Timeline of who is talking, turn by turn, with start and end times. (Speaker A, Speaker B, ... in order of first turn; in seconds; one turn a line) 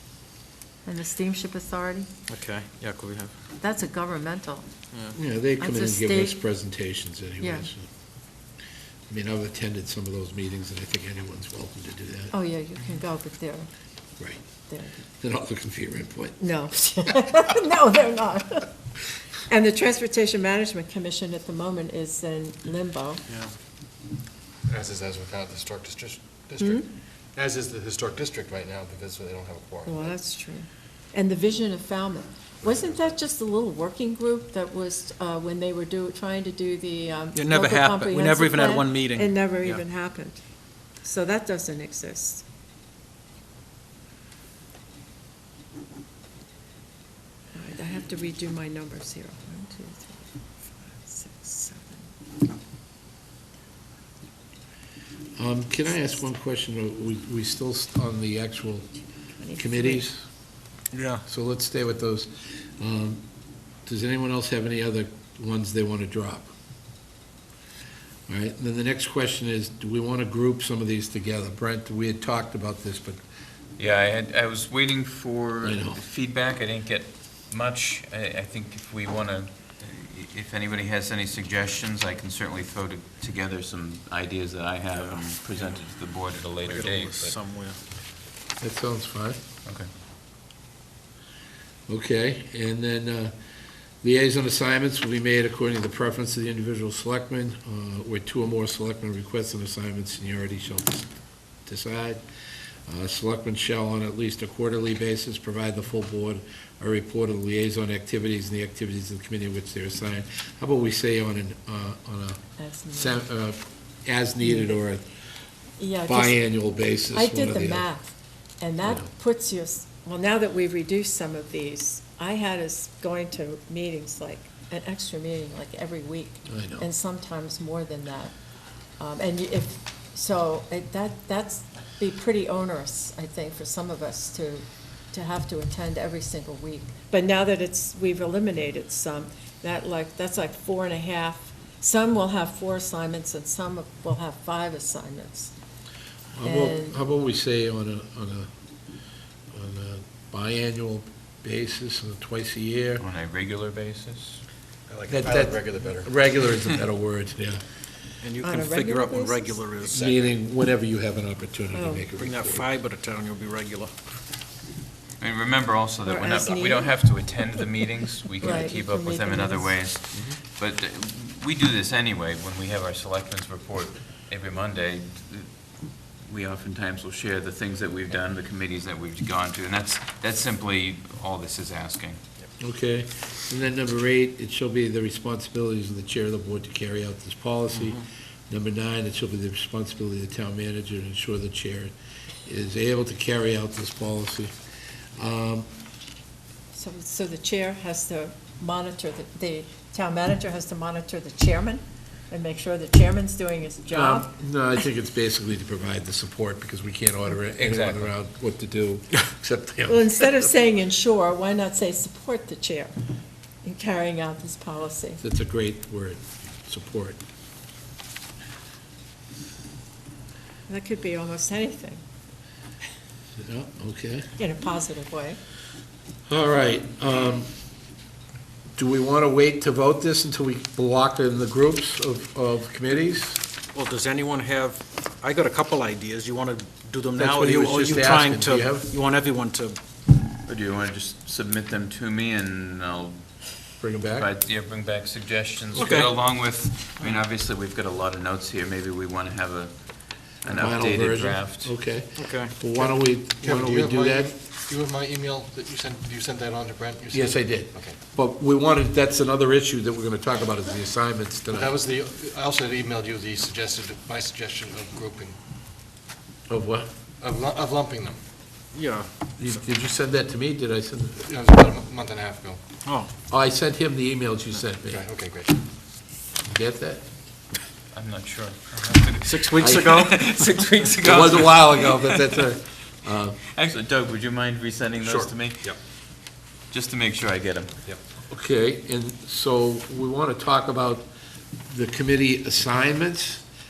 Speaker A: 0.8-2.1
Speaker B: 2.3-3.3
Speaker A: 3.6-4.7
Speaker C: 5.1-7.8
Speaker A: 5.6-6.4
Speaker A: 7.4-7.7
Speaker C: 9.1-12.3
Speaker A: 12.3-13.7
Speaker A: 14.7-15.0
Speaker C: 15.2-16.4
Speaker A: 16.4-18.7
Speaker A: 19.5-23.2
Speaker D: 24.7-30.1
Speaker A: 26.6-26.9
Speaker A: 29.9-40.4
Speaker D: 32.6-33.0
Speaker B: 37.4-39.8
Speaker A: 41.0-42.4
Speaker A: 47.5-52.1
Speaker C: 55.4-58.9
Speaker A: 59.4-60.0
Speaker C: 59.6-60.2
Speaker B: 60.9-61.2
Speaker C: 61.3-63.2
Speaker C: 63.9-66.5
Speaker C: 68.3-73.2
Speaker E: 73.8-87.3
Speaker C: 75.6-76.0
Speaker B: 84.9-85.3
Speaker B: 86.6-87.8
Speaker C: 88.6-89.4
Speaker C: 91.9-93.3
Speaker C: 94.0-101.1
Speaker C: 101.7-102.2
Speaker C: 102.9-112.4
Speaker A: 112.6-113.2
Speaker C: 112.9-115.0
Speaker A: 114.4-114.8
Speaker A: 115.8-116.4
Speaker C: 116.1-117.8
Speaker A: 117.1-128.3
Speaker C: 126.5-126.9
Speaker A: 129.0-145.5
Speaker C: 146.4-148.5
Speaker A: 146.4-147.0
Speaker C: 149.5-153.0
Speaker E: 153.0-154.4
Speaker D: 154.9-156.1
Speaker C: 155.1-157.6
Speaker B: 158.2-160.0
Speaker A: 158.4-159.6
Speaker D: 159.8-160.3
Speaker C: 159.9-162.7
Speaker A: 161.7-162.0
Speaker B: 162.2-163.9
Speaker E: 165.2-175.5
Speaker A: 166.1-166.9
Speaker A: 168.4-169.8
Speaker E: 176.2-182.2
Speaker C: 182.6-191.9
Speaker C: 192.4-194.5
Speaker C: 195.2-195.7
Speaker A: 196.7-204.3
Speaker C: 203.9-210.5
Speaker E: 207.6-208.1
Speaker A: 209.9-212.9
Speaker A: 213.6-215.2
Speaker C: 215.2-217.2
Speaker A: 220.7-222.0
Speaker C: 223.4-224.3
Speaker A: 224.4-225.4
Speaker C: 226.3-227.5
Speaker C: 228.8-233.4
Speaker B: 233.7-239.8
Speaker C: 237.2-238.9
Speaker E: 240.3-243.2
Speaker C: 243.8-244.3
Speaker E: 244.1-251.8
Speaker B: 245.7-246.1
Speaker C: 250.5-254.3
Speaker B: 252.2-252.6
Speaker D: 252.8-258.0
Speaker C: 257.1-261.8
Speaker D: 261.5-265.4
Speaker C: 266.5-266.9
Speaker D: 267.2-268.2
Speaker B: 268.7-269.1
Speaker C: 269.4-271.3
Speaker D: 271.2-272.6
Speaker B: 272.9-273.1
Speaker C: 273.3-275.0
Speaker D: 274.9-275.6
Speaker C: 276.5-277.0
Speaker E: 277.9-282.4
Speaker B: 279.2-280.7
Speaker C: 279.6-280.0
Speaker C: 281.0-283.4
Speaker E: 283.5-285.7
Speaker D: 285.0-285.8
Speaker E: 286.7-287.7
Speaker C: 288.3-291.1
Speaker C: 291.7-293.4